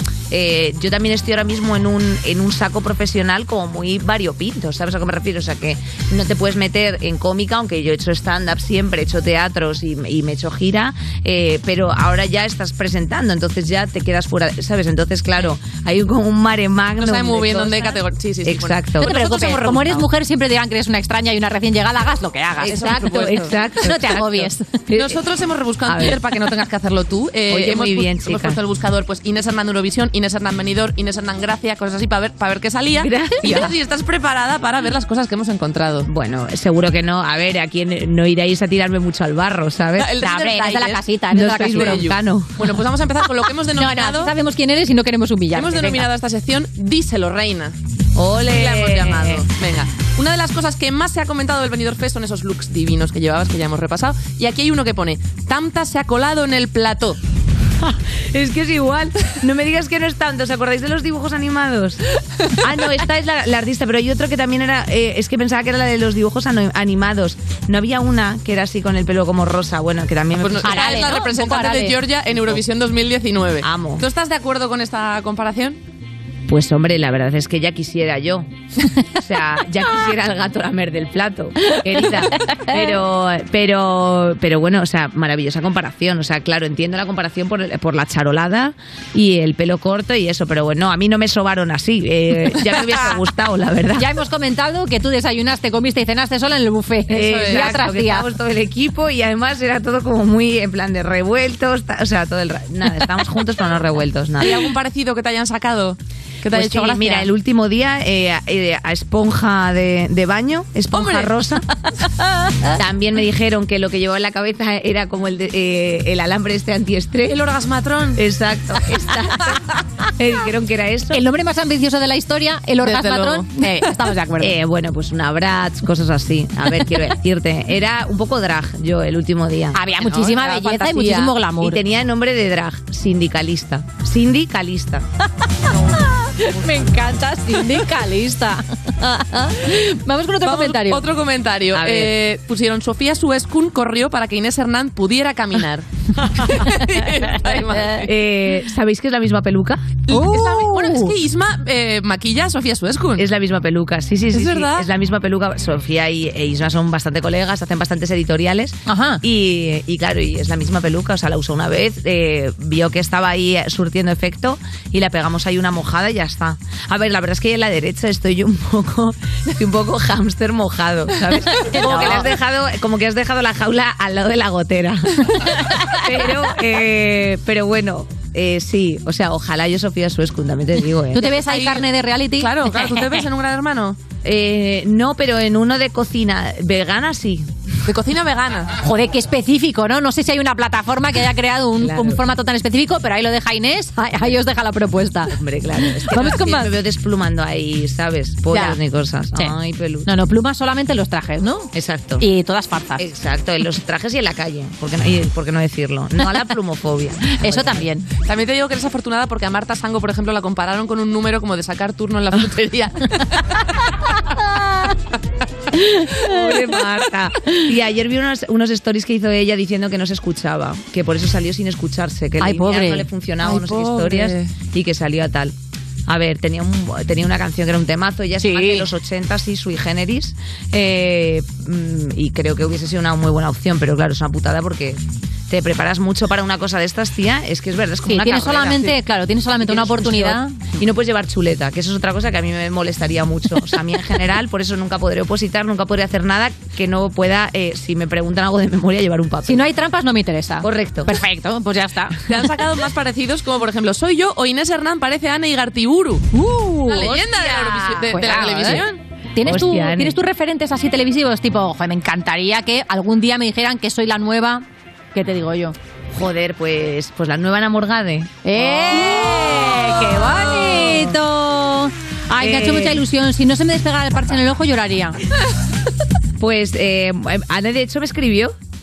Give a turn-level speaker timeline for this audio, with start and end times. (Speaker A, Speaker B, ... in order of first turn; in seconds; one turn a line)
Speaker A: 0.3-17.9
Speaker B: 17.0-20.0
Speaker A: 18.4-19.2
Speaker C: 19.0-24.7
Speaker A: 22.6-25.2
Speaker B: 22.6-23.5
Speaker B: 24.9-36.0
Speaker A: 25.9-26.1
Speaker A: 27.5-28.6
Speaker A: 33.0-33.7
Speaker A: 36.1-40.1
Speaker B: 40.0-44.3
Speaker C: 40.2-42.1
Speaker A: 41.3-42.5
Speaker C: 43.8-46.0
Speaker B: 45.5-47.8
Speaker A: 48.1-49.5
Speaker B: 48.3-57.2
Speaker A: 58.3-62.0
Speaker A: 62.6-71.0
Speaker B: 70.3-75.8
Speaker C: 70.6-71.9
Speaker A: 73.6-74.0
Speaker A: 76.5-78.5
Speaker A: 79.2-94.1
Speaker C: 94.0-98.3
Speaker B: 97.1-97.8
Speaker A: 97.1-104.6
Speaker B: 104.4-107.3
Speaker A: 106.5-111.6
Speaker B: 110.9-111.3
Speaker A: 112.8-117.4
Speaker B: 117.3-118.2
Speaker A: 118.2-119.6
Speaker A: 120.2-121.2
Speaker C: 121.1-124.5
Speaker B: 122.8-123.9
Speaker A: 124.4-129.8
Speaker C: 129.7-131.8
Speaker B: 130.0-131.3
Speaker A: 131.6-135.0
Speaker C: 136.4-141.0
Speaker B: 140.4-145.9
Speaker A: 141.7-142.1
Speaker B: 146.5-148.1
Speaker C: 147.5-148.1
Speaker A: 148.0-149.8
Speaker C: 148.7-151.1
Speaker B: 150.1-153.2
Speaker A: 153.2-175.2
Speaker B: 154.3-154.9
Speaker C: 158.9-159.2
Speaker C: 171.7-172.3
Speaker C: 175.5-176.3
Speaker A: 175.9-181.2
Speaker C: 181.1-183.2
Speaker B: 181.2-181.8
Speaker B: 182.4-184.0
Speaker A: 184.2-187.5
Speaker B: 187.9-188.7
Speaker C: 188.8-195.3
Speaker A: 191.8-192.2
Speaker A: 195.3-200.1
Speaker C: 196.1-196.7
Speaker C: 198.5-198.8
Speaker C: 199.3-203.0
Speaker A: 201.7-202.2
Speaker A: 203.0-207.8
Speaker C: 207.3-208.0
Speaker B: 208.2-213.2
Speaker C: 215.8-216.5
Speaker A: 216.2-225.5
Speaker C: 222.4-223.1
Speaker B: 223.4-224.5
Speaker A: 226.1-238.9
Speaker C: 228.4-228.9
Speaker C: 238.1-240.6
Speaker A: 239.6-249.6
Speaker C: 249.5-252.3
Speaker A: 250.6-251.1
Speaker B: 252.3-256.2
Speaker C: 256.3-258.8
Speaker B: 256.9-259.0
Speaker C: 259.4-265.7
Speaker A: 259.4-260.1
Speaker A: 266.1-271.1
Speaker C: 268.4-275.2
Speaker A: 272.4-273.0
Speaker A: 276.4-278.5